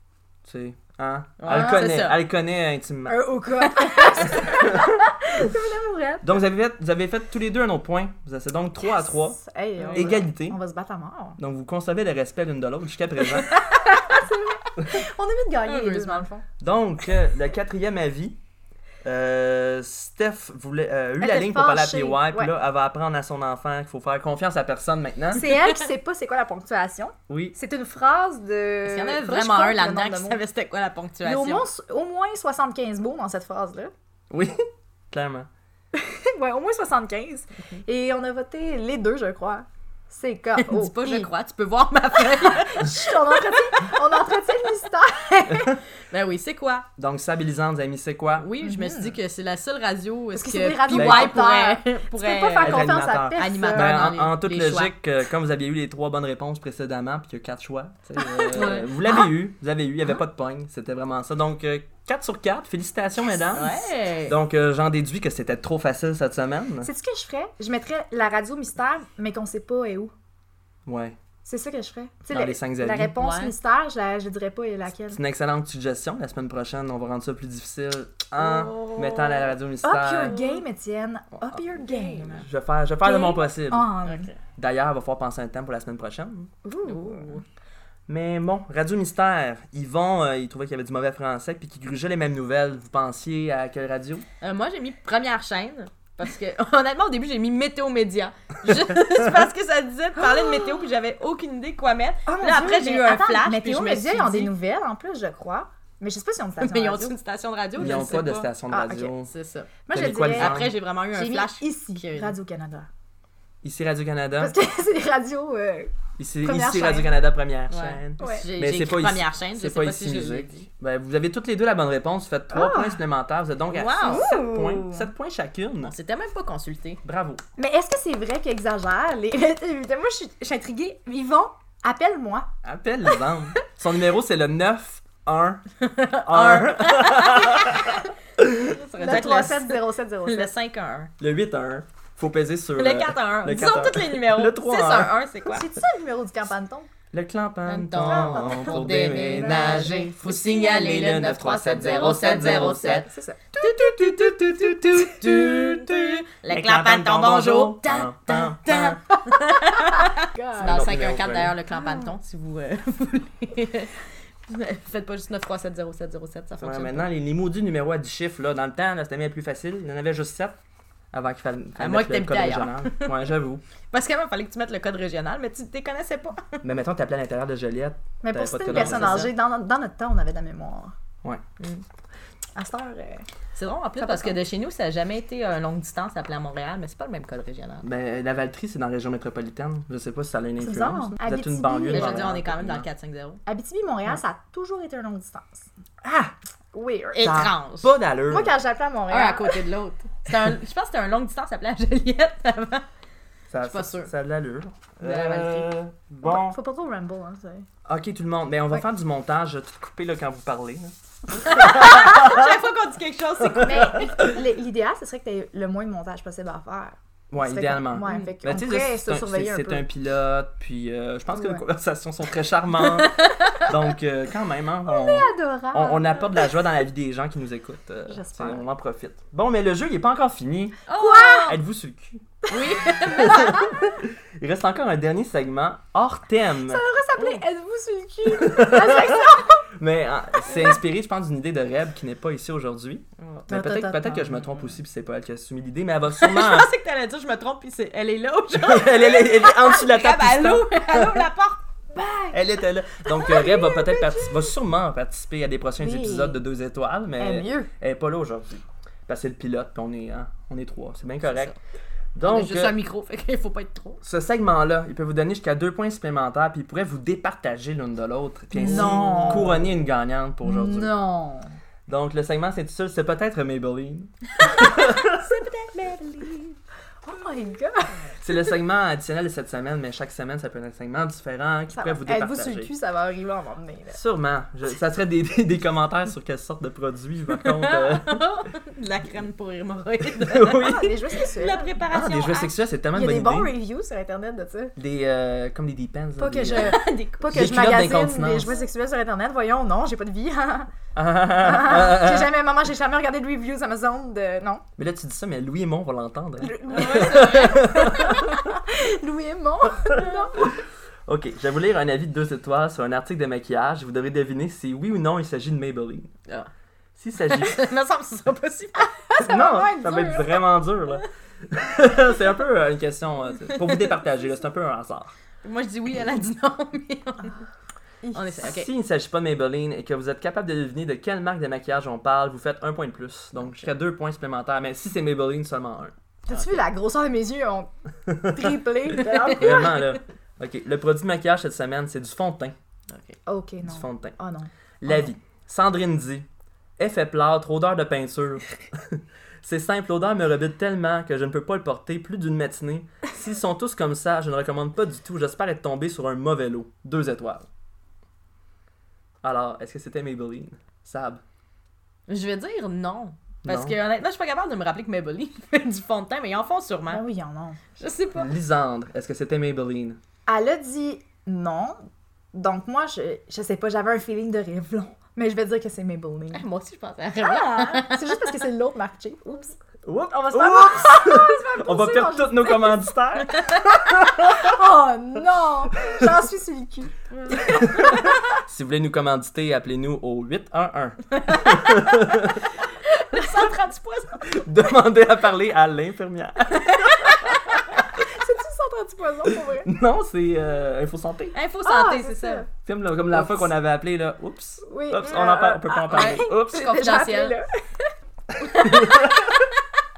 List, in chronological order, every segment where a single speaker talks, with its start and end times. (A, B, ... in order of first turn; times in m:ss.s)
0:00.4-0:03.2 A
0:01.4-0:02.2 B
0:01.5-0:01.8 C
0:03.1-0:06.4 C
0:03.7-0:04.4 B
0:04.3-0:05.4 A
0:06.2-0:09.4 A
0:09.0-0:11.4 C
0:09.8-0:10.2 B
0:09.9-0:10.6 A
0:11.4-0:13.6 A
0:13.4-0:16.4 C
0:15.7-0:16.2 B
0:16.6-0:18.4 A
0:19.0-0:25.5 A
0:21.2-0:22.5 C
0:25.3-0:30.4 C
0:27.3-0:27.6 A
0:28.8-0:31.6 B
0:31.2-0:33.9 C
0:34.3-0:35.5 A
0:36.0-0:41.3 C
0:40.6-0:43.0 B
0:42.3-0:45.8 C
0:45.5-0:45.8 A
0:46.1-0:46.9 B
0:47.0-0:48.5 A
0:48.4-0:55.0 B
0:48.6-0:49.2 C
0:50.3-0:54.1 C
0:50.9-0:51.5 A
0:52.6-1:06.9 A
0:58.2-0:59.0 B
1:03.5-1:04.4 B
1:06.8-1:10.1 C
1:10.9-1:11.2 A
1:11.4-1:15.2 C
1:12.3-1:13.1 A
1:13.2-1:13.6 B
1:15.1-1:20.4 A
1:18.4-1:19.5 B
1:19.8-1:22.5 C
1:20.3-1:20.6 B
1:21.8-1:22.4 B
1:22.4-1:23.9 A
1:23.0-1:24.3 C
1:24.0-1:24.4 B
1:24.6-1:26.5 A
1:26.6-1:27.4 C
1:26.8-1:27.4 B
1:28.1-1:34.2 A
1:34.4-1:44.5 B
1:40.2-1:40.8 C
1:42.3-1:47.2 C
1:46.6-1:48.5 B
1:47.8-1:49.3 A
1:48.7-1:49.1 C
1:49.3-1:49.7 B
1:49.9-1:52.9 C
1:49.9-1:50.7 A
1:50.3-1:52.4 B
1:53.6-1:54.5 A
1:54.4-1:57.1 C
1:56.2-2:05.9 A
1:57.7-2:00.7 B
1:58.2-1:58.5 C
2:02.5-2:03.0 C
2:03.7-2:04.3 B
2:04.0-2:05.1 C
2:05.8-2:07.0 B
2:07.0-2:07.4 A
2:07.6-2:12.5 C
2:12.6-2:15.6 A
2:15.8-2:18.1 B
2:16.2-2:18.8 A
2:18.7-2:21.1 B
2:18.9-2:20.5 C
2:21.2-2:25.2 A
2:22.8-2:25.7 B
2:25.5-2:26.9 C
2:27.1-2:39.0 A
2:27.7-2:33.1 B
2:28.0-2:30.1 C
2:32.6-2:33.6 C
2:33.6-2:47.1 B
2:39.8-2:40.8 C
2:40.6-2:41.6 A
2:41.8-2:42.1 C
2:46.6-2:50.6 A
2:51.1-2:53.6 A
2:51.8-2:53.2 B
2:53.9-2:56.6 B
2:56.6-2:59.3 A
2:58.2-3:00.9 C
2:58.7-2:59.3 B
3:02.6-3:03.3 C
3:03.6-3:07.8 B
3:04.0-3:04.4 C
3:07.8-3:12.9 A
3:10.6-3:12.3 C
3:11.9-3:13.4 B
3:13.5-3:15.7 C
3:16.7-3:17.4 C
3:17.1-3:17.9 B
3:17.2-3:18.5 A
3:18.3-3:19.7 C
3:19.1-3:22.9 B
3:23.5-3:26.6 A
3:23.6-3:24.1 B
3:25.0-3:25.7 B
3:26.2-3:27.7 C
3:27.9-3:32.5 A
3:31.4-3:34.2 B
3:33.5-3:34.4 A
3:33.6-3:39.8 C
3:37.3-3:50.8 A
3:38.1-3:38.3 B
3:41.3-3:41.6 C
3:43.0-3:43.7 B
3:44.9-3:46.5 C
3:48.1-3:48.6 C
3:50.9-3:51.6 B
3:50.9-3:51.6 C
3:51.5-3:52.2 A
3:52.5-3:53.7 B
3:53.0-3:56.8 A
3:56.7-3:59.7 C
3:57.2-3:57.4 B
3:58.3-4:06.7 A
4:03.5-4:04.3 C
4:06.2-4:11.6 B
4:08.5-4:11.3 A
4:11.9-4:12.5 C
4:12.3-4:21.5 A
4:13.1-4:14.5 C
4:15.8-4:16.4 C
4:17.2-4:17.7 C
4:21.2-4:21.6 B
4:22.2-4:22.8 A
4:22.2-4:24.0 B
4:24.0-4:31.0 A
4:28.6-4:29.7 C
4:28.6-4:29.5 B
4:30.4-4:31.5 C
4:31.9-4:35.3 A
4:34.4-4:36.6 B
4:37.0-4:38.1 C
4:38.2-4:42.7 A
4:41.7-4:44.0 C
4:43.9-4:48.2 A
4:47.3-4:52.5 B
4:50.2-4:51.0 A
4:50.5-4:51.8 C
4:51.9-4:53.5 A
4:52.9-4:54.8 C
4:54.8-4:56.8 A
4:56.2-5:00.7 C
4:56.5-4:57.5 B
4:57.3-4:58.5 A
5:01.0-5:02.3 A
5:01.4-5:04.6 C
5:04.8-5:08.4 A
5:06.4-5:10.6 C
5:06.7-5:07.9 B
5:09.9-5:10.3 B
5:10.4-5:16.1 A
5:17.0-5:17.6 A
5:17.3-5:18.9 B
5:19.0-5:20.4 C
5:19.2-5:25.1 A
5:25.4-5:27.4 B
5:28.0-5:28.4 C
5:28.1-5:28.7 B
5:28.4-5:35.9 A
5:36.3-5:40.0 C
5:36.3-5:36.6 B
5:39.1-5:39.6 B
5:39.3-5:42.6 A
5:42.9-5:43.2 B
5:43.3-5:45.1 C
5:43.6-5:44.2 A
5:44.8-5:46.3 A
5:46.8-5:57.5 A
5:59.2-6:01.2 A
6:02.1-6:07.0 B
6:03.4-6:03.8 A
6:06.9-6:07.6 C
6:07.8-6:08.3 B
6:08.2-6:10.0 A
6:10.3-6:16.4 C
6:16.3-6:18.3 B
6:17.2-6:22.8 C
6:19.8-6:24.6 A
6:23.4-6:23.6 B
6:24.0-6:28.0 C
6:25.8-6:26.1 A
6:27.1-6:28.2 B
6:27.5-6:32.5 A
6:31.3-6:32.0 B
6:33.1-6:34.4 B
6:34.2-6:37.4 A
6:37.9-6:39.7 C
6:39.3-6:41.4 A
6:41.3-6:42.4 B
6:41.6-6:42.5 C
6:42.6-6:46.6 A
6:44.6-6:47.9 C
6:45.9-6:47.4 B
6:48.4-6:48.7 C
6:48.6-6:49.4 A
6:48.6-6:49.0 B